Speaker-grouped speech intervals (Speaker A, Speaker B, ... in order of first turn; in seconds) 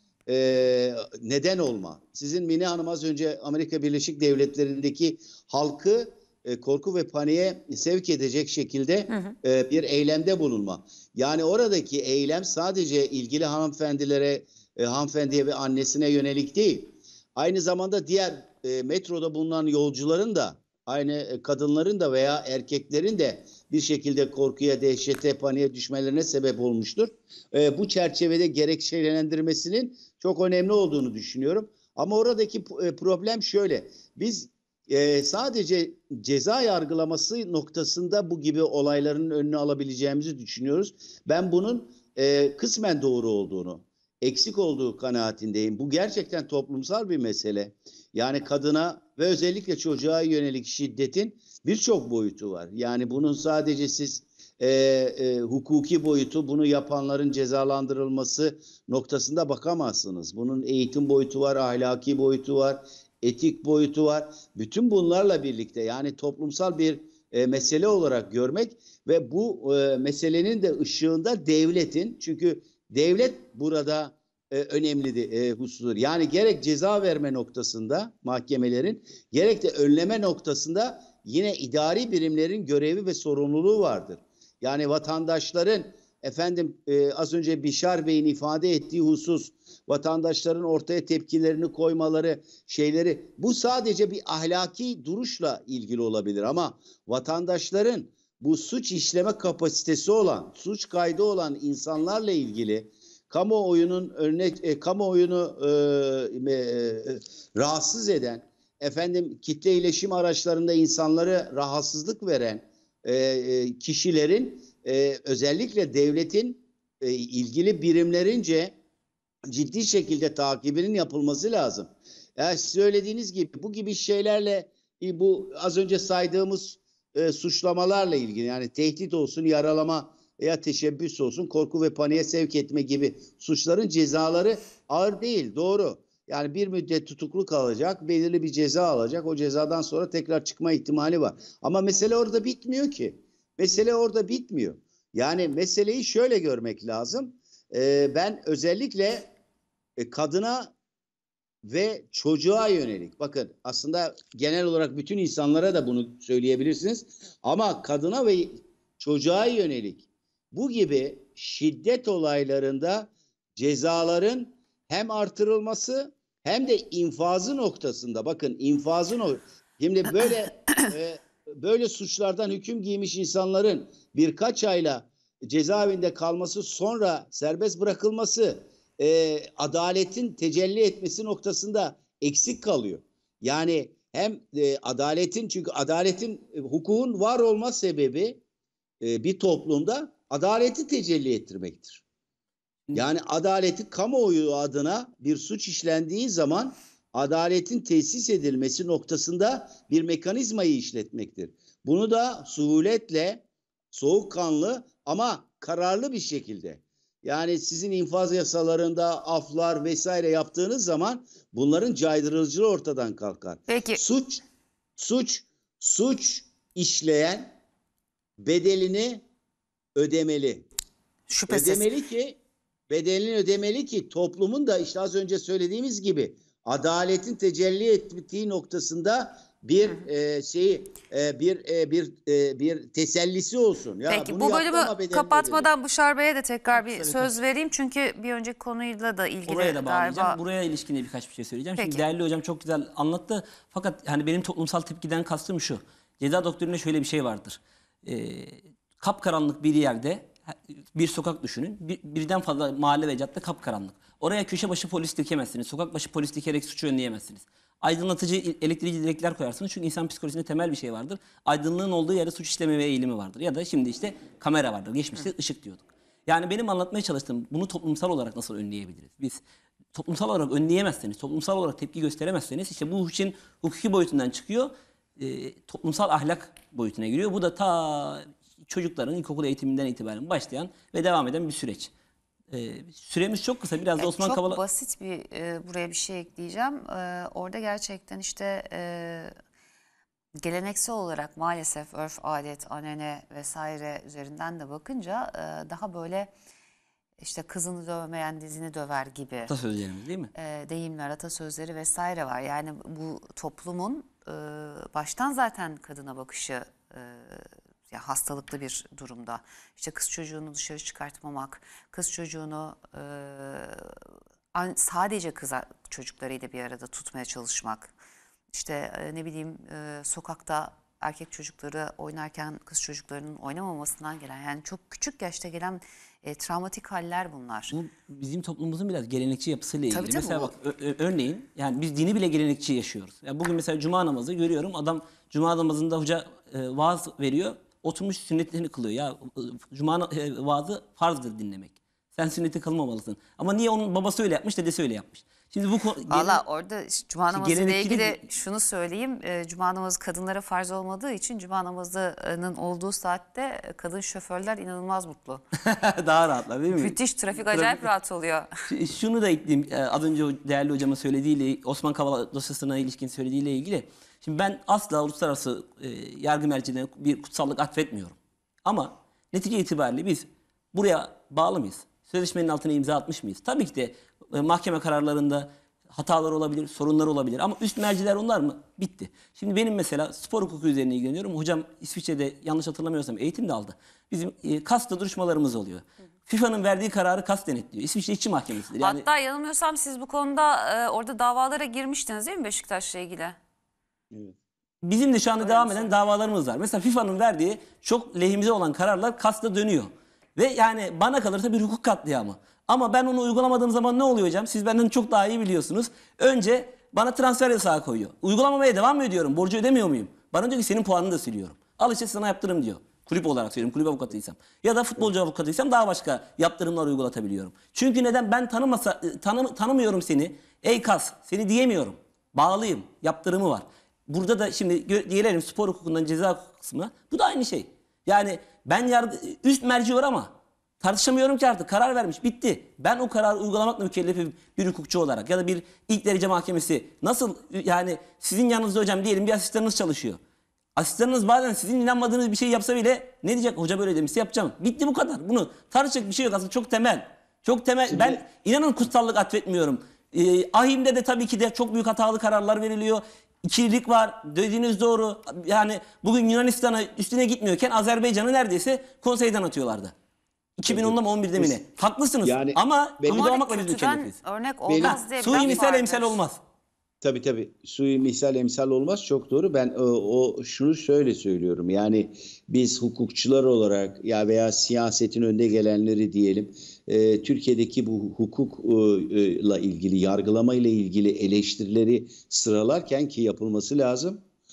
Speaker A: 0.3-118.8, 119.5-149.3, 150.0-150.7, 151.7-188.4, 189.0-192.0, 192.9-214.4, 215.0-217.5, 218.4-219.2, 219.9-220.7, 221.5-222.4, 222.9-235.7, 447.9-448.2, 460.7-461.6, 462.2-463.2, 464.7-465.6, 467.0-484.2
Speaker B: 213.7-214.0, 221.3-221.9, 234.1-240.4, 241.8-242.0, 284.0-289.4, 290.4-296.3, 297.2-299.5, 300.4-313.9, 314.5-317.9, 318.5-327.7, 329.9-330.5, 346.1-355.4, 356.7-358.5, 388.8-393.4, 395.4-395.9, 463.1-466.2
Speaker C: 236.8-237.3, 239.5-269.4, 269.9-281.9, 282.5-284.6, 299.5-300.3, 327.7-346.4, 347.3-348.3, 355.6-357.9, 358.7-389.0, 394.8-440.2, 440.8-459.9, 460.6-464.2, 464.8-466.4